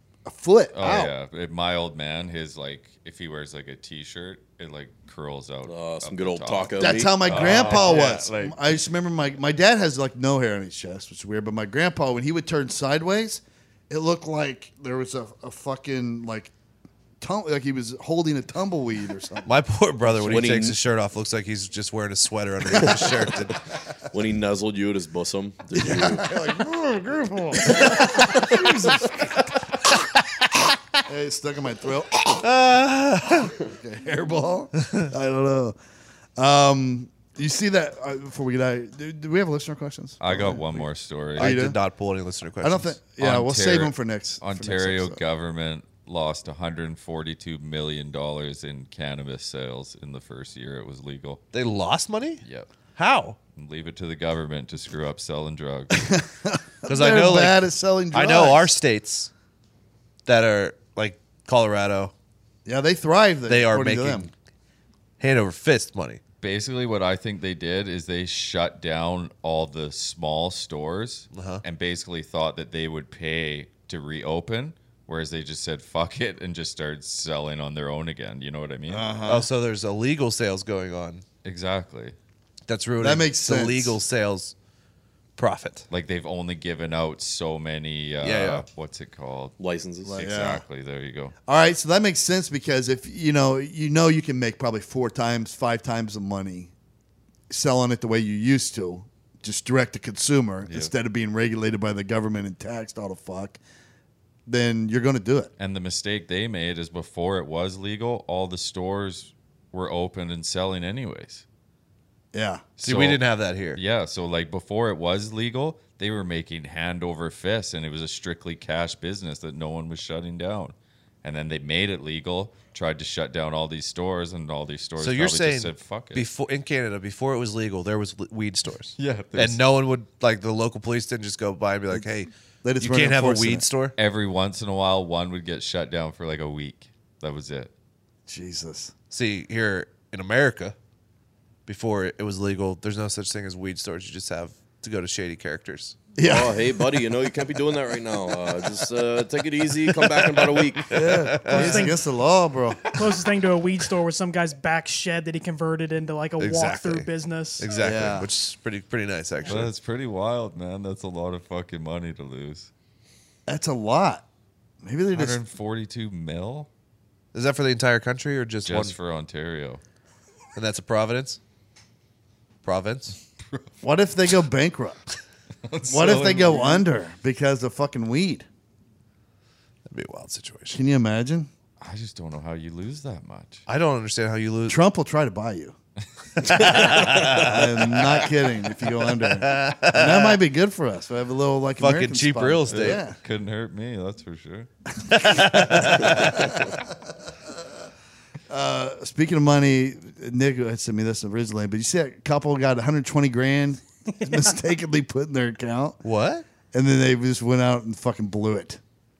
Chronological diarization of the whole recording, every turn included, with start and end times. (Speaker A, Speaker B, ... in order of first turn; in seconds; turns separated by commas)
Speaker A: 0.2-1.1, Speaker B: 0.7-8.6, Speaker C: 5.6-7.9, Speaker A: 6.8-16.5, Speaker A: 17.2-19.6, Speaker D: 19.5-23.6, Speaker C: 20.2-20.8, Speaker C: 24.1-26.4, Speaker A: 25.8-29.6, Speaker A: 31.1-32.4, Speaker D: 32.4-33.5, Speaker A: 33.5-35.8, Speaker A: 36.4-41.8, Speaker B: 40.2-41.6, Speaker D: 41.4-43.0, Speaker A: 42.6-45.2, Speaker B: 43.2-51.4, Speaker D: 51.5-52.4, Speaker B: 52.4-52.7, Speaker D: 53.0-53.4, Speaker B: 53.5-56.0, Speaker A: 56.0-58.7, Speaker D: 56.9-59.3, Speaker D: 60.3-62.1, Speaker A: 62.6-64.3, Speaker D: 63.5-64.3, Speaker D: 65.2-66.2, Speaker B: 66.4-79.1, Speaker D: 71.3-71.6, Speaker A: 78.9-79.5, Speaker D: 79.3-81.2, Speaker B: 81.4-82.2, Speaker D: 82.7-84.5, Speaker A: 83.0-84.0, Speaker D: 85.4-85.9, Speaker B: 85.9-89.5, Speaker D: 88.2-88.6, Speaker C: 89.6-90.2, Speaker A: 90.0-90.6, Speaker B: 90.2-91.3, Speaker A: 91.5-96.7, Speaker A: 97.5-103.6, Speaker A: 104.5-105.5, Speaker B: 105.6-111.4, Speaker A: 112.3-112.7, Speaker B: 112.8-113.2, Speaker D: 112.8-113.8, Speaker B: 113.8-126.3, Speaker D: 125.0-134.0, Speaker B: 129.0-129.6, Speaker A: 132.6-133.7, Speaker B: 134.0-137.7, Speaker A: 138.3-138.9, Speaker D: 139.1-140.8, Speaker D: 141.7-146.0, Speaker A: 146.2-147.1, Speaker C: 146.2-151.0, Speaker D: 150.9-151.9, Speaker A: 150.9-152.9, Speaker E: 151.4-152.0, Speaker E: 152.9-157.7, Speaker D: 156.4-159.7, Speaker A: 157.8-158.3, Speaker B: 159.5-162.7, Speaker A: 163.5-164.2, Speaker A: 164.8-165.4, Speaker B: 165.1-166.7, Speaker D: 167.3-169.0, Speaker B: 168.7-169.8, Speaker D: 170.6-171.4, Speaker D: 172.6-173.2, Speaker B: 173.5-173.7, Speaker A: 173.8-175.0, Speaker B: 175.7-176.9, Speaker A: 175.9-178.5, Speaker D: 179.9-180.8, Speaker A: 180.7-181.5, Speaker B: 181.8-183.6, Speaker D: 183.7-184.8, Speaker A: 184.7-185.8, Speaker A: 186.4-193.2, Speaker D: 186.5-190.4, Speaker B: 186.5-187.3, Speaker D: 191.8-193.0, Speaker B: 192.7-194.7, Speaker D: 195.1-196.6, Speaker A: 195.1-197.6, Speaker B: 195.8-196.7, Speaker A: 198.5-206.0, Speaker D: 206.0-206.4, Speaker A: 206.7-208.8